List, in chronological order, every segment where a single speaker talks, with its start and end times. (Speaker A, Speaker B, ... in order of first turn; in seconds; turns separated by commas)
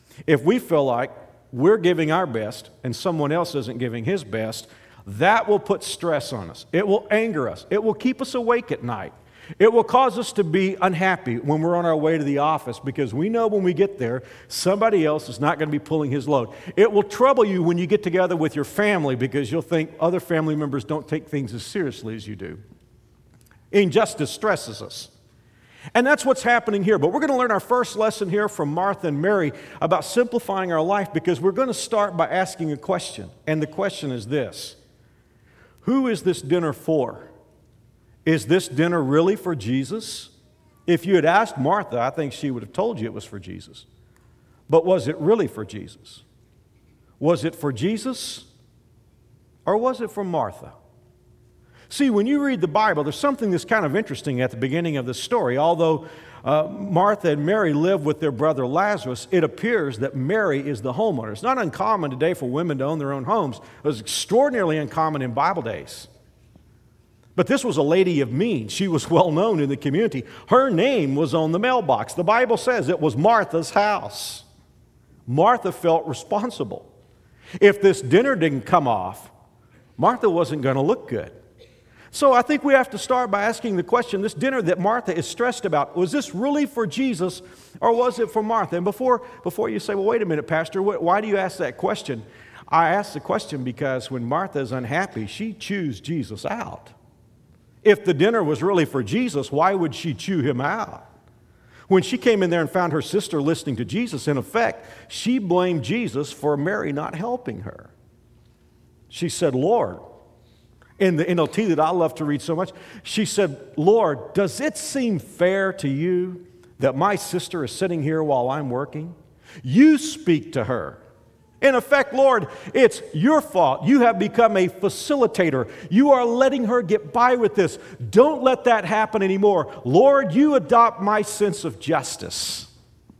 Speaker A: 0.2-22.6, Speaker A: 23.7-25.1, Speaker A: 25.9-34.8, Speaker A: 35.8-37.3, Speaker A: 38.2-40.3, Speaker A: 40.9-43.9, Speaker A: 44.7-46.2, Speaker A: 47.2-48.5, Speaker A: 49.6-50.7, Speaker A: 51.9-66.1, Speaker A: 67.3-74.4, Speaker A: 75.3-76.9, Speaker A: 77.6-79.3, Speaker A: 80.0-81.3, Speaker A: 82.1-96.9, Speaker A: 97.8-101.0, Speaker A: 101.9-107.9, Speaker A: 109.1-110.0, Speaker A: 111.0-121.0, Speaker A: 121.6-132.7